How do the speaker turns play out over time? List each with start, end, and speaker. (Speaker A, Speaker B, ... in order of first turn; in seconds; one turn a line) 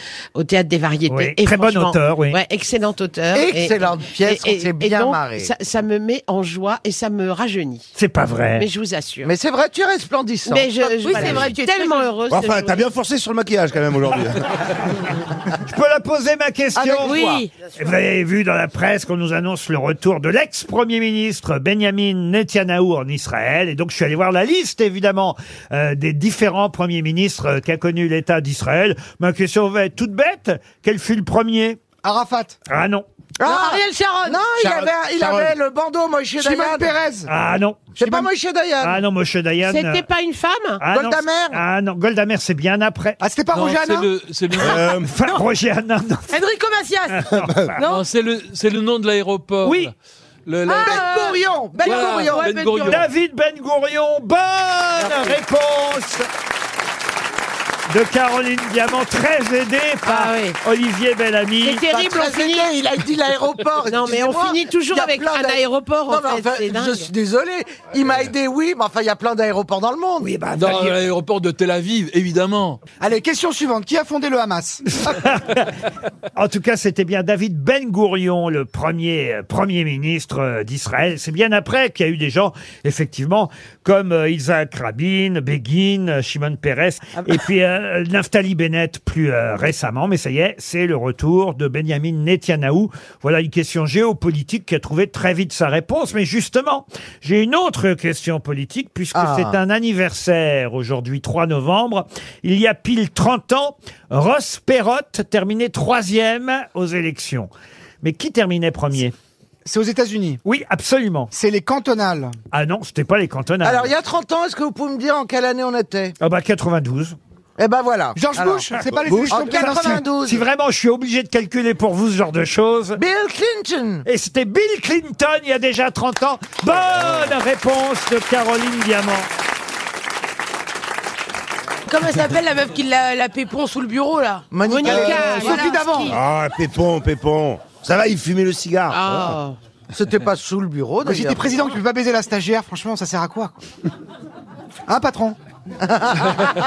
Speaker A: 0.3-8.0
Speaker B: 1.1-2.4
Speaker C: 3.3-5.5
Speaker B: 8.0-8.7
Speaker A: 8.6-9.3
Speaker C: 9.2-11.6
Speaker A: 10.5-12.8
Speaker D: 10.9-12.1
Speaker E: 12.3-14.6
Speaker B: 15.7-31.8
Speaker A: 16.8-17.9
Speaker C: 16.9-17.3
Speaker F: 32.0-32.6
Speaker B: 32.7-33.0
Speaker C: 33.4-36.9
Speaker D: 33.4-34.5
Speaker E: 34.6-35.6
Speaker F: 36.4-37.3
Speaker B: 37.3-37.9
Speaker C: 38.0-39.0
Speaker B: 38.8-40.0
Speaker A: 39.7-40.8
Speaker B: 40.8-43.2
Speaker C: 40.9-41.6
Speaker F: 43.2-44.1
Speaker G: 43.5-45.0
Speaker E: 44.6-45.2
Speaker B: 45.1-46.3
Speaker D: 46.3-47.2
Speaker B: 47.1-47.8
Speaker D: 47.8-48.0
Speaker G: 47.8-49.9
Speaker B: 49.6-49.9
Speaker G: 50.5-51.1
Speaker D: 50.7-53.0
Speaker C: 50.8-52.9
Speaker G: 51.8-53.1
Speaker B: 52.9-56.3
Speaker C: 55.0-55.4
Speaker B: 57.9-61.9
Speaker A: 60.0-60.6
Speaker A: 61.6-62.7
Speaker C: 61.9-70.3
Speaker A: 63.9-67.1
Speaker B: 70.2-71.1
Speaker G: 70.5-72.8
Speaker F: 73.0-74.8
Speaker B: 74.9-75.7
Speaker B: 76.4-107.5
Speaker C: 99.1-99.6
Speaker B: 108.0-109.1
Speaker F: 109.7-110.4
Speaker B: 110.5-111.3
Speaker F: 111.3-112.3
Speaker B: 112.5-113.9
Speaker C: 113.6-116.2
Speaker B: 116.2-117.2
Speaker C: 117.6-118.7
Speaker F: 118.2-120.0
Speaker B: 118.7-123.0
Speaker C: 119.3-120.5
Speaker C: 123.0-124.0
Speaker B: 124.1-129.3
Speaker D: 131.9-135.9
Speaker C: 134.5-135.5
Speaker A: 134.7-136.2
Speaker F: 134.9-136.2
Speaker E: 136.1-139.4
Speaker A: 138.9-139.6
Speaker C: 139.9-141.6
Speaker F: 141.0-143.6
Speaker F: 144.9-145.4
Speaker C: 145.8-146.6